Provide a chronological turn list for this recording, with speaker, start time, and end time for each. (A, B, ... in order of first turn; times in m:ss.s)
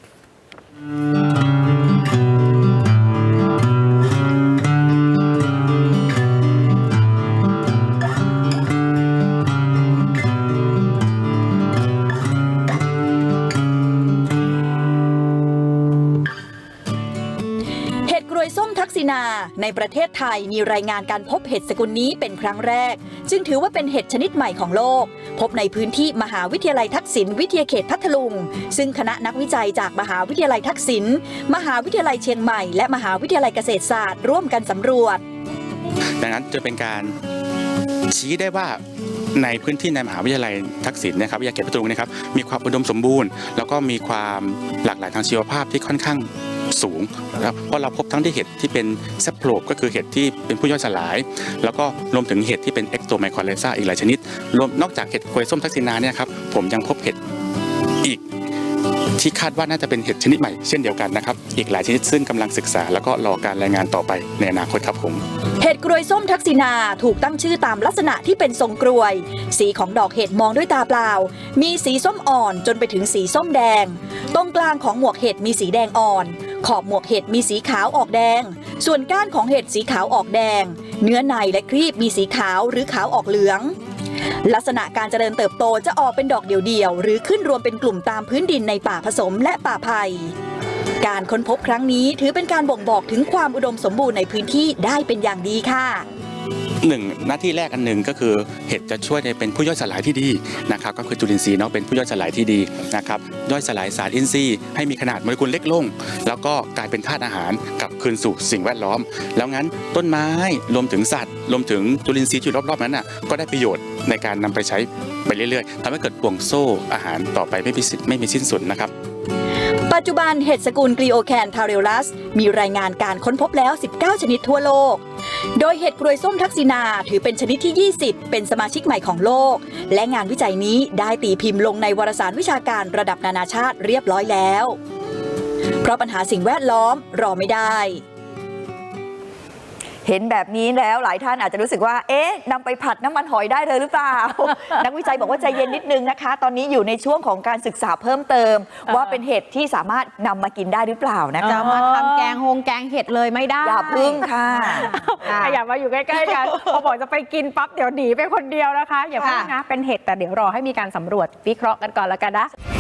0:18.0-0:35.2 A
0:36.2-0:37.2 B
0:38.1-0:38.8 B
0:39.3-0:57.2 B
0:59.2-1:05.2 B
1:05.6-1:23.8 A
1:24.4-1:30.4 A
1:31.0-1:36.1 A
1:36.8-1:58.9 B
1:59.9-2:05.0 A
2:05.6-2:14.8 A
2:15.8-2:18.0 A
2:20.0-2:32.0 C
2:31.4-2:35.6 D
2:31.6-2:32.4 E
2:33.6-2:35.4 C
2:34.5-2:42.5 E
2:36.2-2:36.8 D
2:39.2-2:39.5 D